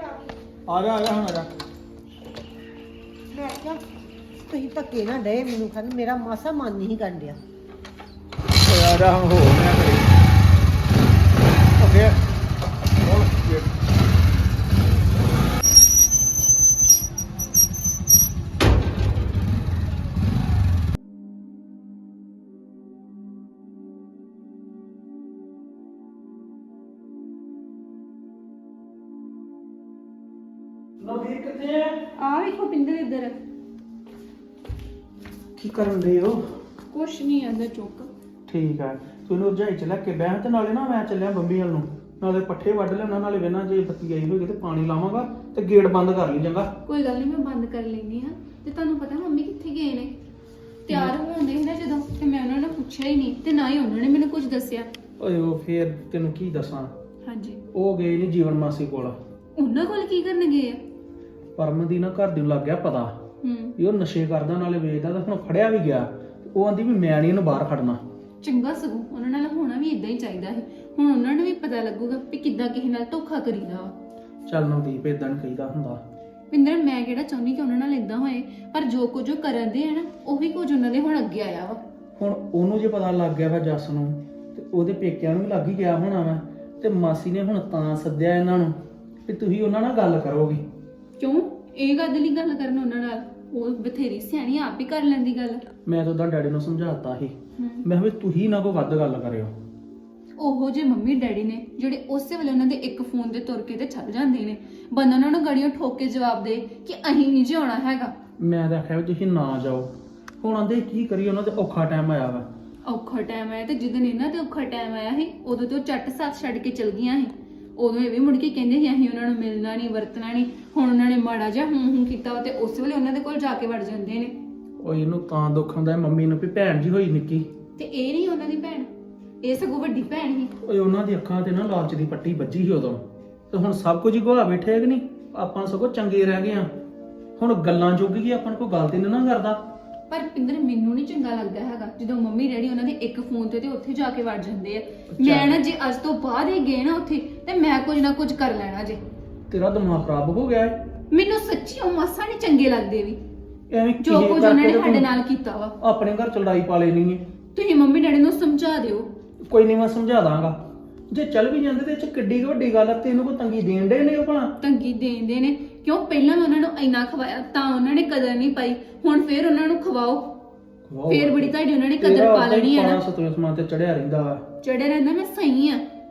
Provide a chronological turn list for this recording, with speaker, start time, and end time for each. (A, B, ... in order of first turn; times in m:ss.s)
0:00.7-0:01.5 A
0:03.3-0:03.8 B
0:04.4-0:07.4 B
0:08.6-0:10.1 A
0:11.8-0:12.2 A
0:13.0-0:13.7 A
0:31.0-0:32.1 C
0:32.2-0:33.4 D
0:35.6-0:36.4 C
0:36.9-0:38.1 D
0:38.5-0:46.7 C
0:46.9-0:50.1 D
0:50.9-0:54.9 D
0:50.9-0:51.2 C
0:55.2-0:56.9 C
0:57.3-0:57.6 D
0:57.7-0:59.2 C
0:59.6-1:00.8 D
1:01.6-1:03.3 C
1:03.4-1:03.7 D
1:03.8-1:08.0 C
1:08.4-1:13.9 D
1:14.5-1:16.0 C
1:16.5-1:21.8 D
1:22.2-1:30.6 C
1:31.2-1:35.6 D
1:35.9-1:39.5 C
1:37.6-1:37.8 D
1:40.4-1:48.1 D
1:48.4-1:52.5 C
1:52.9-2:04.4 D
2:04.8-2:07.5 C
2:07.8-2:08.9 D
2:09.4-2:10.5 D
2:10.6-2:16.7 C
2:17.4-2:19.6 C
2:20.1-2:29.0 D
2:25.1-2:25.6 C
2:29.5-2:30.8 C
2:31.1-2:33.2 D
2:33.7-2:35.2 C
2:34.0-2:35.7 D
2:35.8-2:37.3 C
2:37.6-2:39.1 D
2:39.5-2:44.6 C
2:44.6-2:50.4 D
2:50.9-2:54.5 C
2:51.1-2:53.0 D
2:54.6-2:55.8 D